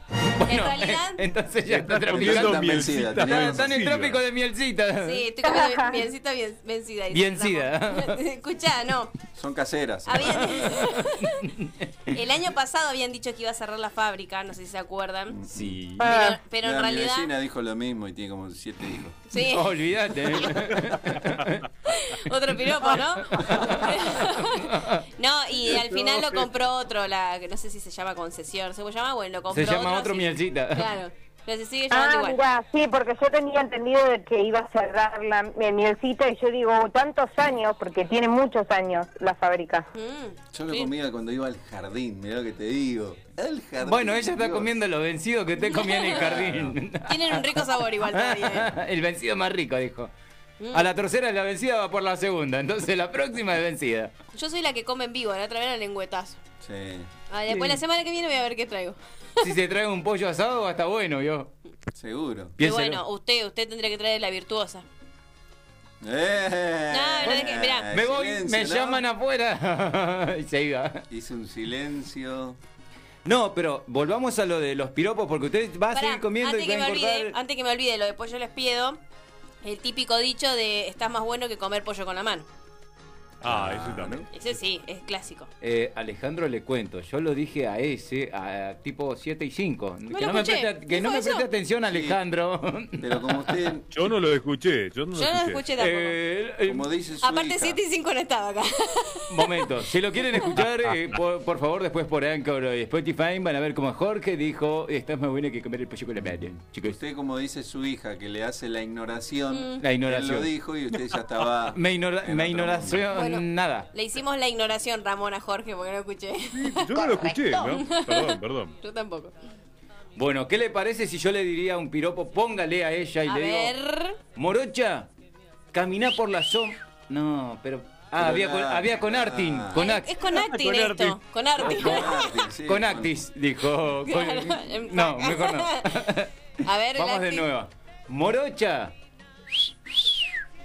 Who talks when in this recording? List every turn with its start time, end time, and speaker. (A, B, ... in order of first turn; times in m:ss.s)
0:00.3-0:05.2 A
0:00.4-0:01.2 B
0:01.7-0:04.2 C
0:02.1-0:03.8 D
0:05.0-0:09.1 B
0:05.4-0:06.0 E
0:07.1-0:08.2 A
0:09.3-0:10.9 D
0:10.0-0:11.4 B
0:11.2-0:12.1 A
0:12.1-0:15.4 B
0:15.3-0:15.8 D
0:15.5-0:16.1 A
0:16.0-0:16.4 E
0:16.0-0:17.3 B
0:16.6-0:19.2 D
0:19.3-0:19.7 B
0:19.3-0:21.6 A
0:21.1-0:21.4 C
0:21.9-0:32.4 B
0:23.2-0:25.0 A
0:25.6-0:26.5 C
0:29.5-0:30.9 A
0:31.9-0:39.9 E
0:39.9-0:40.9 B
0:40.5-0:44.7 D
0:43.8-0:50.1 A
0:45.7-0:46.3 B
0:46.1-0:46.7 D
0:47.1-0:48.7 B
0:50.6-0:50.8 B
0:50.7-0:54.1 A
0:54.3-0:56.4 B
0:56.6-0:57.1 D
0:57.3-0:59.0 B
0:57.5-0:57.8 A
0:59.4-1:01.5 A
1:02.0-1:02.5 D
1:02.6-1:03.0 A
1:02.6-1:04.8 B
1:06.0-1:09.0 D
1:06.9-1:07.9 B
1:07.2-1:11.0 A
1:11.1-1:12.6 D
1:13.2-1:17.4 A
1:15.9-1:19.0 B
1:19.6-1:22.4 B
1:23.4-1:24.5 C
1:23.4-1:24.3 D
1:24.3-1:25.5 B
1:25.6-1:33.5 A
1:30.1-1:31.4 B
1:31.9-1:32.2 D
1:33.0-1:33.9 D
1:33.9-1:35.6 C
1:35.1-1:36.2 B
1:35.8-1:36.9 A
1:36.6-1:37.8 D
1:37.2-1:39.6 B
1:39.3-1:47.0 A
1:46.2-1:53.1 D
1:49.5-1:49.8 B
1:49.8-1:50.5 A
1:51.7-1:53.9 A
1:53.1-1:59.3 B
1:56.5-1:58.7 C
2:00.2-2:03.7 A
2:03.3-2:04.2 B
2:04.3-2:05.1 A
2:05.7-2:10.2 A
2:08.2-2:09.8 D
2:09.7-2:12.3 B
2:10.3-2:11.2 C
2:11.6-2:13.1 D
2:11.6-2:16.3 A
2:14.0-2:15.9 B
2:16.6-2:17.5 B
2:17.0-2:18.9 A